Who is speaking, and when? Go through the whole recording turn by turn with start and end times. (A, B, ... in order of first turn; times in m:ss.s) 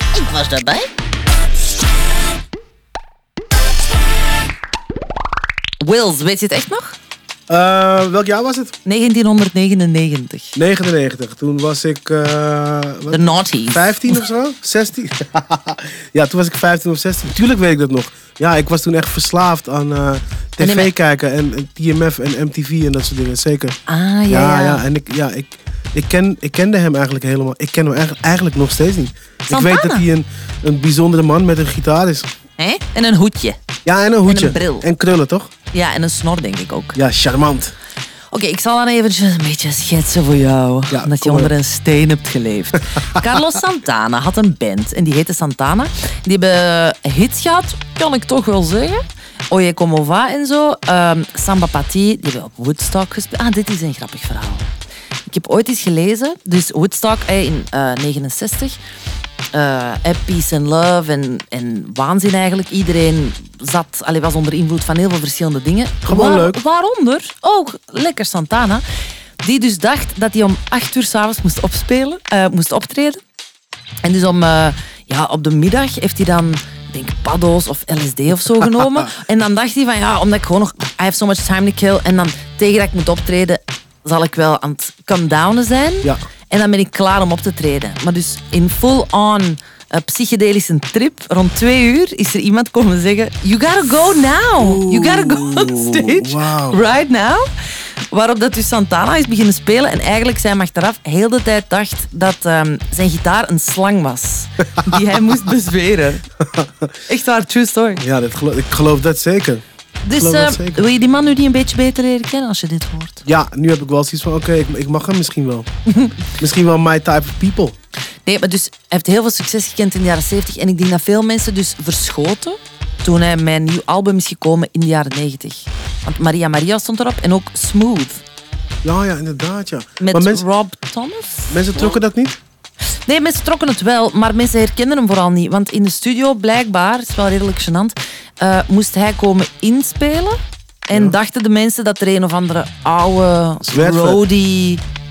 0:00.1-0:00.9 A
0:05.8-0:07.0 A
0:07.5-0:08.7 B
0:08.8-0:10.6 A
0:10.6-0:23.8 B
0:13.1-0:14.2 A
0:20.6-0:20.9 A
0:23.9-0:24.8 A
0:24.3-0:32.3 B
0:29.5-0:30.1 A
0:32.6-0:33.6 A
0:33.8-0:35.5 B
0:34.3-0:34.9 A
0:35.7-0:37.0 A
0:37.0-0:37.8 B
0:38.3-0:54.7 A
0:40.9-0:41.5 B
0:55.3-0:58.8 A
0:59.5-1:08.8 A
1:06.0-1:06.6 B
1:09.4-1:13.2 A
1:14.0-1:37.4 A
1:34.6-1:36.8 B
1:38.1-1:46.2 A
1:46.4-1:46.9 B
1:47.1-1:48.0 A
1:48.0-1:49.6 B
1:50.0-1:53.2 A
1:50.2-1:50.8 B
1:53.2-1:55.7 B
1:55.9-1:56.2 A
1:56.4-1:57.8 B
1:58.3-2:08.2 A
2:08.8-2:10.4 B
2:10.0-2:12.0 A
2:11.5-2:12.4 B
2:13.1-2:20.4 A
2:20.9-2:24.8 A
2:23.6-2:24.2 B